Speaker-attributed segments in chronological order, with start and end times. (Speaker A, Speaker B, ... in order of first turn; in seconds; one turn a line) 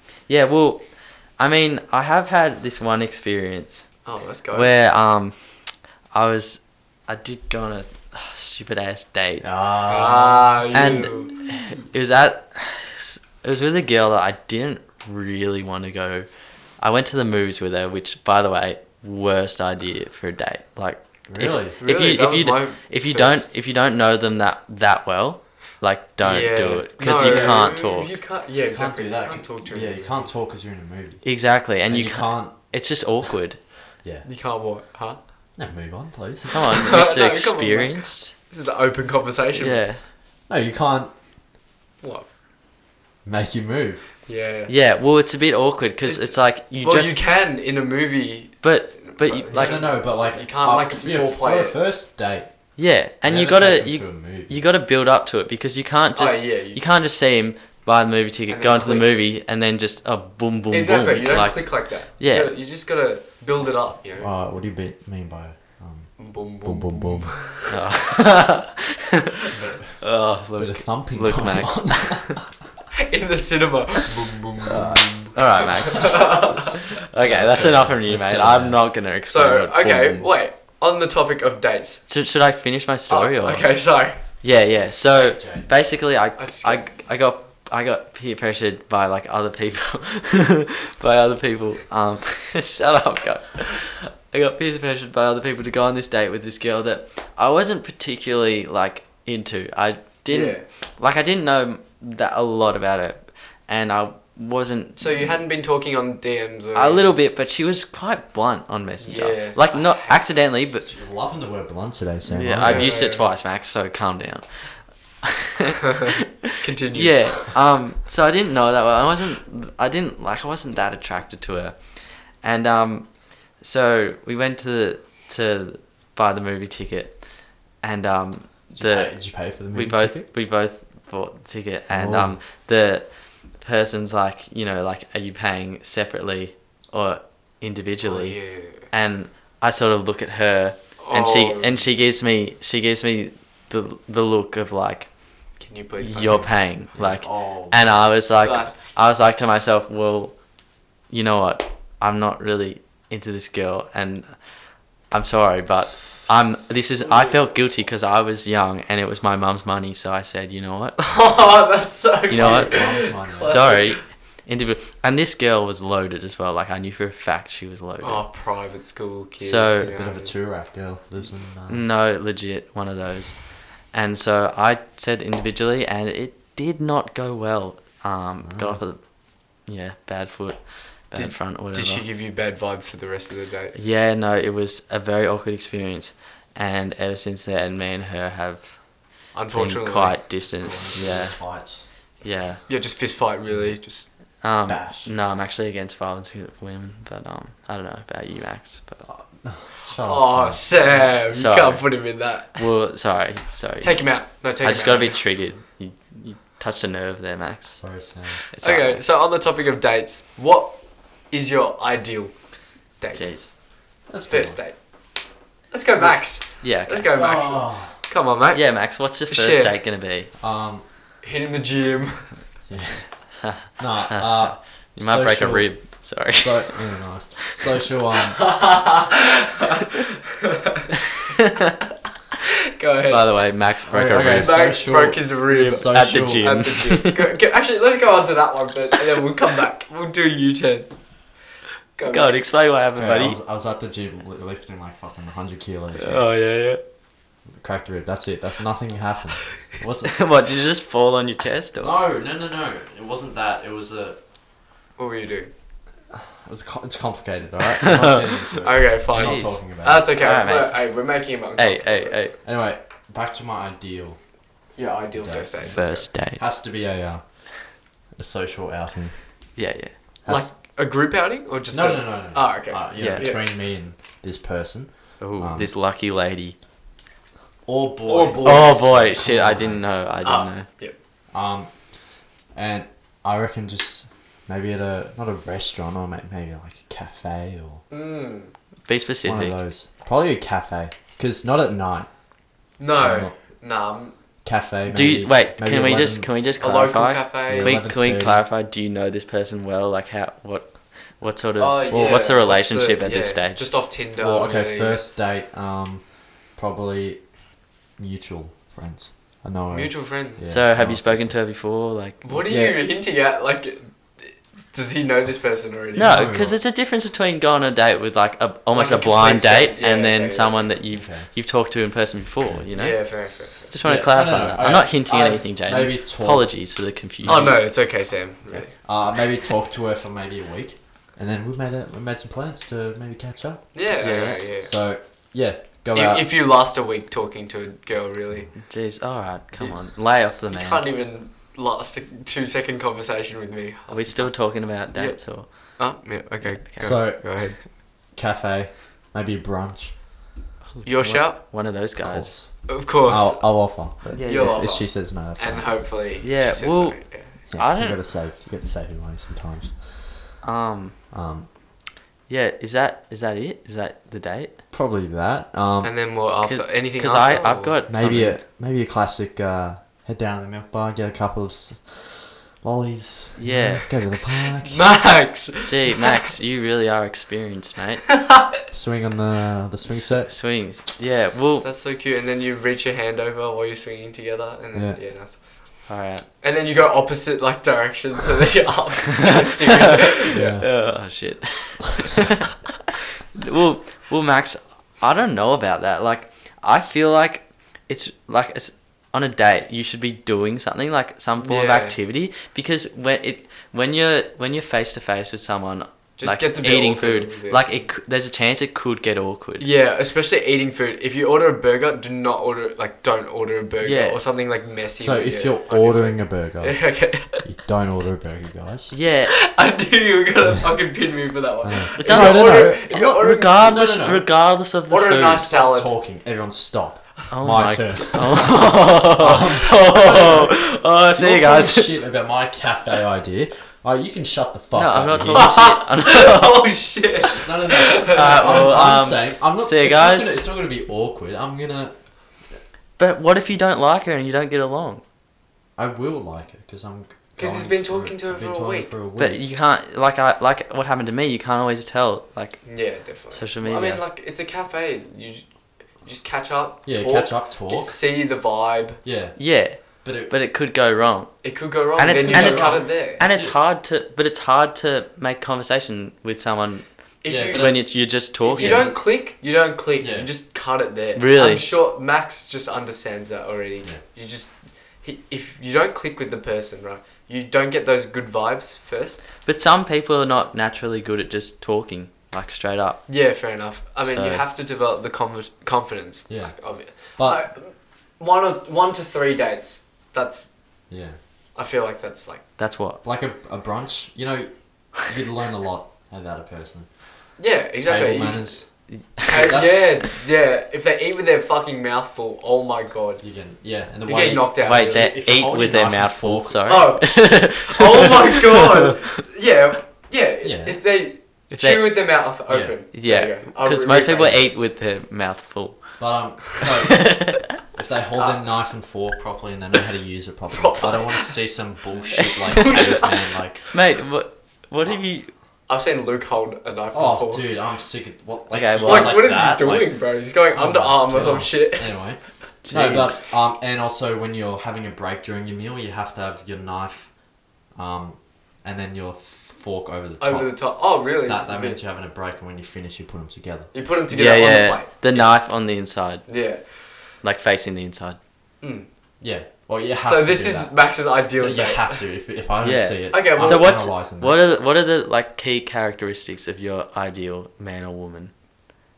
Speaker A: 0.3-4.0
Speaker B: 4.0-4.7
Speaker A: 4.5-9.4
Speaker C: 9.4-11.4
Speaker B: 9.8-11.3
Speaker A: 10.7-16.3
Speaker A: 16.8-28.1
Speaker C: 21.3-21.8
Speaker B: 21.8-23.5
Speaker B: 26.2-30.3
Speaker C: 27.1-27.6
Speaker C: 28.6-32.8
Speaker A: 31.2-33.6
Speaker B: 34.2-35.2
Speaker C: 35.6-36.6
Speaker A: 36.5-38.3
Speaker B: 36.7-39.8
Speaker A: 39.5-40.0
Speaker C: 40.5-41.1
Speaker B: 42.0-42.3
Speaker C: 43.2-44.1
Speaker B: 44.2-44.7
Speaker A: 44.7-47.2
Speaker B: 46.0-51.8
Speaker A: 48.6-49.9
Speaker C: 49.5-54.6
Speaker A: 52.8-62.5
Speaker B: 56.1-56.8
Speaker B: 58.5-59.2
Speaker B: 60.7-64.3
Speaker C: 64.2-67.5
Speaker B: 66.2-68.2
Speaker A: 67.7-69.3
Speaker C: 69.5-72.7
Speaker A: 70.0-72.4
Speaker B: 72.9-76.9
Speaker C: 74.7-75.3
Speaker A: 75.3-80.3
Speaker C: 77.2-78.8
Speaker B: 79.3-82.1
Speaker A: 82.1-105.2
Speaker B: 83.1-84.2
Speaker C: 85.1-85.7
Speaker B: 86.4-86.9
Speaker B: 100.3-100.6
Speaker B: 105.0-107.1
Speaker A: 106.7-110.8
Speaker B: 109.0-110.6
Speaker C: 110.7-113.0
Speaker A: 112.2-150.5
Speaker B: 112.6-113.3
Speaker B: 116.5-117.6
Speaker C: 128.7-130.3
Speaker C: 131.9-132.4
Speaker B: 138.0-138.9
Speaker B: 141.0-141.8
Speaker B: 145.6-146.6
Speaker C: 146.9-147.8
Speaker B: 148.3-149.0
Speaker A: 151.1-161.0
Speaker B: 161.0-164.0
Speaker A: 162.3-162.8
Speaker C: 162.3-163.7
Speaker A: 163.4-168.2
Speaker B: 168.0-170.3
Speaker A: 169.4-169.9
Speaker C: 169.8-171.8
Speaker A: 171.7-182.0
Speaker C: 178.4-178.8
Speaker B: 181.1-183.8
Speaker A: 183.7-191.7
Speaker B: 189.3-190.4
Speaker C: 190.6-191.9
Speaker A: 192.2-192.6
Speaker B: 192.7-194.1
Speaker C: 193.5-193.8
Speaker A: 194.4-199.1
Speaker C: 194.7-195.1
Speaker C: 199.0-201.1
Speaker B: 200.0-202.7
Speaker A: 201.3-207.9
Speaker B: 203.8-205.2
Speaker C: 207.7-208.4
Speaker A: 208.5-209.1
Speaker B: 208.6-212.3
Speaker B: 213.0-219.8
Speaker A: 213.1-213.5
Speaker C: 214.1-214.6
Speaker A: 216.6-217.1
Speaker C: 217.1-217.9
Speaker A: 218.5-220.3
Speaker C: 220.4-220.9
Speaker B: 221.2-222.4
Speaker C: 222.7-228.5
Speaker A: 223.4-227.0
Speaker B: 228.4-230.9
Speaker A: 231.4-231.7
Speaker B: 232.7-233.6
Speaker A: 233.1-234.6
Speaker C: 233.9-236.7
Speaker B: 234.3-240.9
Speaker A: 235.7-237.2
Speaker B: 241.9-242.6
Speaker A: 242.1-243.4
Speaker C: 242.9-246.2
Speaker A: 246.0-246.8
Speaker C: 247.5-250.3
Speaker A: 250.1-251.9
Speaker C: 251.8-254.2
Speaker B: 255.0-255.5
Speaker C: 256.3-260.1
Speaker A: 258.0-258.4
Speaker B: 258.6-262.4
Speaker A: 259.1-260.9
Speaker A: 261.6-262.3
Speaker C: 262.4-264.2
Speaker B: 264.8-266.1
Speaker C: 265.1-269.2
Speaker A: 265.7-266.4
Speaker A: 269.6-269.9
Speaker C: 270.2-270.5
Speaker B: 270.2-273.4
Speaker C: 271.7-275.7
Speaker A: 272.9-273.3
Speaker A: 275.2-276.6
Speaker C: 277.6-279.9
Speaker B: 278.1-278.9
Speaker A: 278.4-280.7
Speaker B: 280.2-280.9
Speaker C: 281.3-287.8
Speaker B: 287.9-288.5
Speaker A: 288.9-289.6
Speaker C: 289.2-292.3
Speaker B: 292.8-294.1
Speaker C: 293.0-293.4
Speaker C: 294.4-296.3
Speaker A: 294.9-303.6
Speaker B: 296.6-297.8
Speaker C: 297.5-298.4
Speaker B: 301.6-305.0
Speaker C: 301.9-302.2
Speaker C: 304.2-311.4
Speaker B: 309.7-310.5
Speaker A: 310.4-312.6
Speaker B: 312.2-316.2
Speaker C: 312.3-312.8
Speaker A: 315.9-327.6
Speaker C: 315.9-316.6
Speaker B: 318.7-320.8
Speaker C: 320.9-321.3
Speaker B: 322.7-323.8
Speaker C: 323.8-327.8
Speaker B: 327.3-328.7
Speaker C: 328.4-333.8
Speaker B: 333.7-334.7
Speaker A: 334.0-334.4
Speaker C: 334.6-336.3
Speaker B: 335.9-338.7
Speaker A: 338.6-340.9
Speaker B: 339.6-347.6
Speaker A: 343.9-345.8
Speaker A: 346.4-346.9
Speaker C: 346.8-350.2
Speaker A: 350.7-352.3
Speaker B: 350.8-351.4
Speaker C: 351.8-355.9
Speaker B: 352.7-357.4
Speaker A: 354.1-354.7
Speaker A: 356.2-358.0
Speaker C: 357.5-360.4
Speaker A: 360.4-361.0
Speaker C: 361.1-361.5
Speaker A: 362.3-364.6
Speaker C: 364.7-365.9
Speaker B: 365.8-367.8
Speaker A: 366.4-368.4
Speaker C: 367.9-374.8
Speaker A: 373.4-373.9
Speaker B: 374.6-376.2
Speaker A: 375.6-378.1
Speaker C: 378.7-380.5
Speaker A: 379.9-381.7
Speaker B: 381.6-390.6
Speaker C: 384.7-385.0
Speaker A: 385.9-386.2
Speaker A: 389.9-392.3
Speaker C: 390.3-390.8
Speaker A: 393.3-409.7
Speaker B: 401.4-402.0
Speaker B: 406.2-407.8
Speaker B: 409.6-417.4
Speaker A: 413.8-414.2
Speaker C: 415.0-418.9
Speaker A: 418.9-419.4
Speaker B: 419.4-423.8
Speaker C: 421.6-424.3
Speaker A: 422.0-425.5
Speaker B: 424.9-425.9
Speaker C: 425.4-435.8
Speaker A: 427.3-432.0
Speaker B: 430.0-430.4
Speaker A: 434.7-436.7
Speaker B: 435.3-438.7
Speaker C: 437.2-442.4
Speaker A: 438.1-440.4
Speaker A: 443.0-445.0
Speaker C: 445.8-449.4
Speaker B: 447.4-448.9
Speaker A: 449.2-454.0
Speaker B: 452.6-455.4
Speaker B: 456.0-459.0
Speaker C: 456.8-458.0
Speaker C: 459.0-460.3
Speaker A: 459.4-468.9
Speaker B: 461.4-463.3
Speaker C: 462.2-463.5
Speaker B: 467.2-479.2
Speaker C: 467.2-467.8
Speaker C: 468.5-469.1
Speaker C: 470.0-470.3
Speaker A: 471.1-471.7
Speaker A: 479.4-483.1
Speaker B: 483.1-490.5
Speaker A: 484.0-484.4
Speaker C: 486.3-487.4
Speaker C: 490.9-491.2
Speaker B: 491.5-492.5
Speaker A: 492.6-493.0
Speaker C: 493.0-500.0
Speaker B: 497.4-503.3
Speaker A: 498.9-499.3
Speaker C: 503.2-506.8
Speaker B: 504.0-505.2
Speaker A: 504.6-508.9
Speaker B: 506.6-514.5
Speaker C: 510.4-510.8
Speaker A: 511.6-511.9
Speaker C: 512.5-512.8
Speaker A: 512.9-516.1
Speaker C: 516.0-523.7
Speaker A: 516.9-517.5
Speaker B: 518.1-518.4
Speaker B: 520.5-521.4
Speaker B: 522.3-523.4
Speaker A: 523.7-525.3
Speaker B: 525.7-527.6
Speaker C: 526.9-543.7
Speaker A: 528.5-529.3
Speaker B: 528.8-532.1
Speaker A: 532.6-533.2
Speaker B: 540.2-541.8
Speaker B: 543.7-545.4
Speaker A: 544.1-546.3
Speaker B: 546.2-546.8
Speaker A: 547.2-548.2
Speaker B: 548.6-548.9
Speaker C: 549.2-554.4
Speaker B: 550.0-552.1
Speaker A: 552.6-558.6
Speaker B: 553.1-553.9